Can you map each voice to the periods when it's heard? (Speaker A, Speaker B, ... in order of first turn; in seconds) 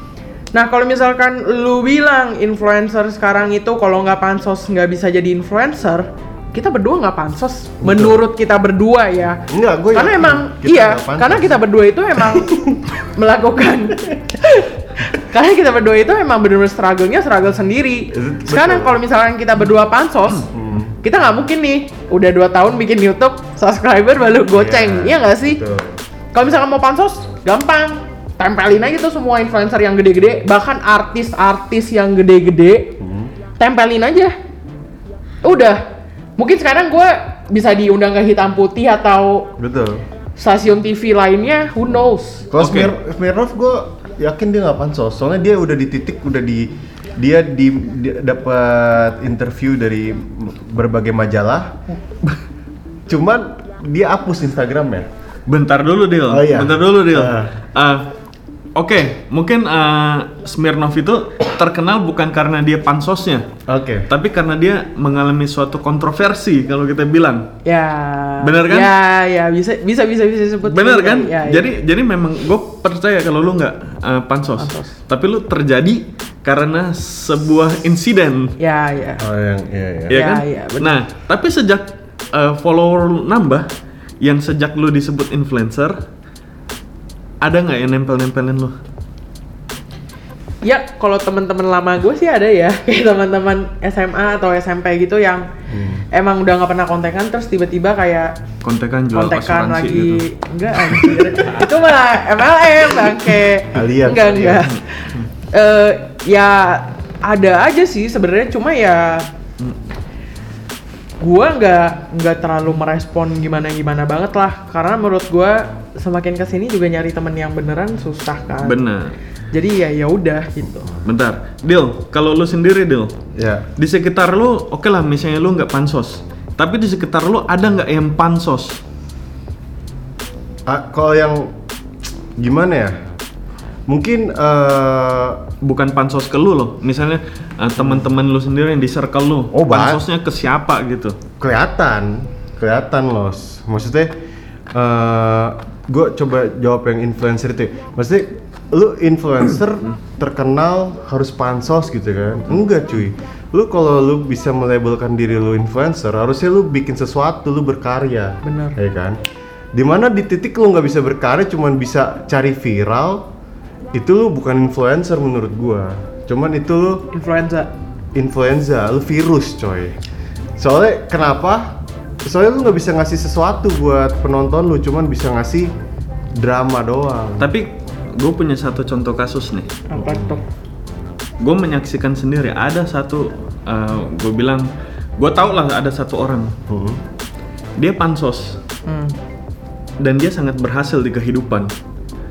Speaker A: 0.5-9.4, 9.9-20.4, 21.0-25.6, 26.3-33.0, 33.6-34.3, 35.4-35.8, 36.4-39.5, 40.4-42.5, 67.6-71.7, 74.6-74.9, 78.6-79.2, 80.1-81.0, 90.6-95.5, 96.1-98.3, 99.1-109.3, 111.2-118.8, 119.5-120.9, 158.4-158.8, 167.1-167.7, 179.9-180.4, 188.8-189.2
Speaker B: 7.8-8.2, 9.5-11.6, 12.3-12.7, 18.1-19.0, 20.5-20.9, 24.5-26.0, 33.0-33.3, 39.6-40.0, 42.5-51.8, 53.1-55.1, 56.3-57.5, 63.7-64.1, 79.2-80.2, 95.7-96.0, 103.7-104.7, 123.3-123.7, 130.7-131.5, 132.4-132.9, 133.9-135.4, 137.8-138.0, 139.5-140.0, 141.4-144.1, 144.7-159.2, 159.7-163.2, 163.9-167.0, 168.1-170.0, 170.6-175.7, 176.3-177.5, 180.0-180.4, 186.7-187.0
Speaker C: 42.6-42.9, 55.5-58.1, 58.8-63.5, 64.1-67.5, 68.4-68.9, 70.6-78.5, 80.1-83.7, 84.2-86.0, 87.4-88.8, 98.6-100.2, 100.9-101.2, 104.5-105.2, 118.6-119.1, 121.0-123.1, 123.8-128.8, 135.6-141.2, 177.4-179.8, 181.4-184.7, 185.2-186.5, 187.8-188.6, 190.0-191.7